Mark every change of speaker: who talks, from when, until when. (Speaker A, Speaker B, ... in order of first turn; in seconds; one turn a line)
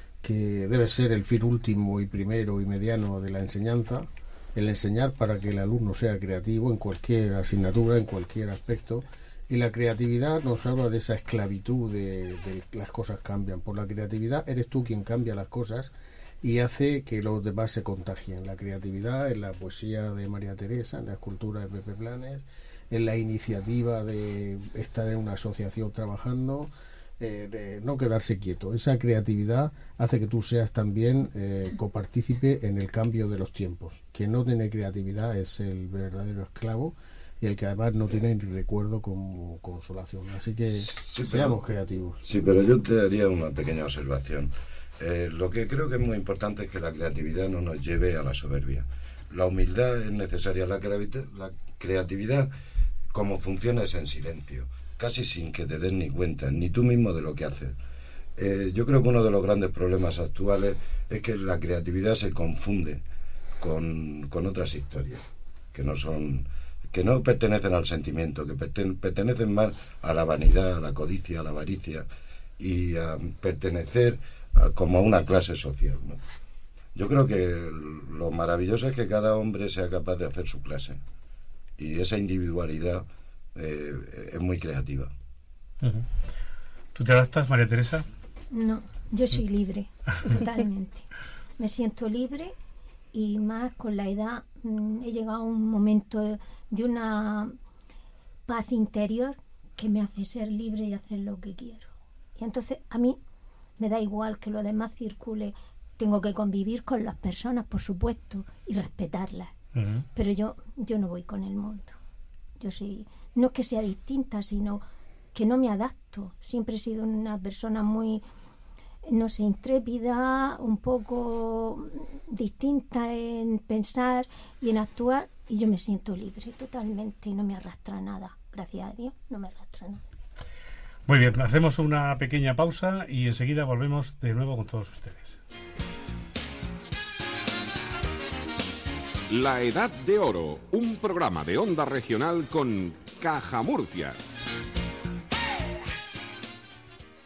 Speaker A: 0.2-42.2
Speaker B: 40.9-41.6
Speaker B: 42.2-52.5
Speaker B: 53.1-57.8
Speaker B: 58.4-63.0
Speaker B: 63.6-72.1
Speaker B: 72.6-76.2
Speaker B: 77.0-81.0
Speaker B: 81.8-85.1
Speaker C: 85.8-86.1
Speaker C: 87.0-88.1
Speaker D: 88.5-91.1
Speaker D: 91.6-92.5
Speaker D: 93.1-97.5
Speaker D: 98.5-103.2
Speaker D: 103.8-109.5
Speaker C: 109.8-110.1
Speaker D: 110.2-112.0
Speaker D: 112.6-118.2
Speaker D: 119.1-130.0
Speaker C: 131.1-135.4
Speaker E: 139.3-144.2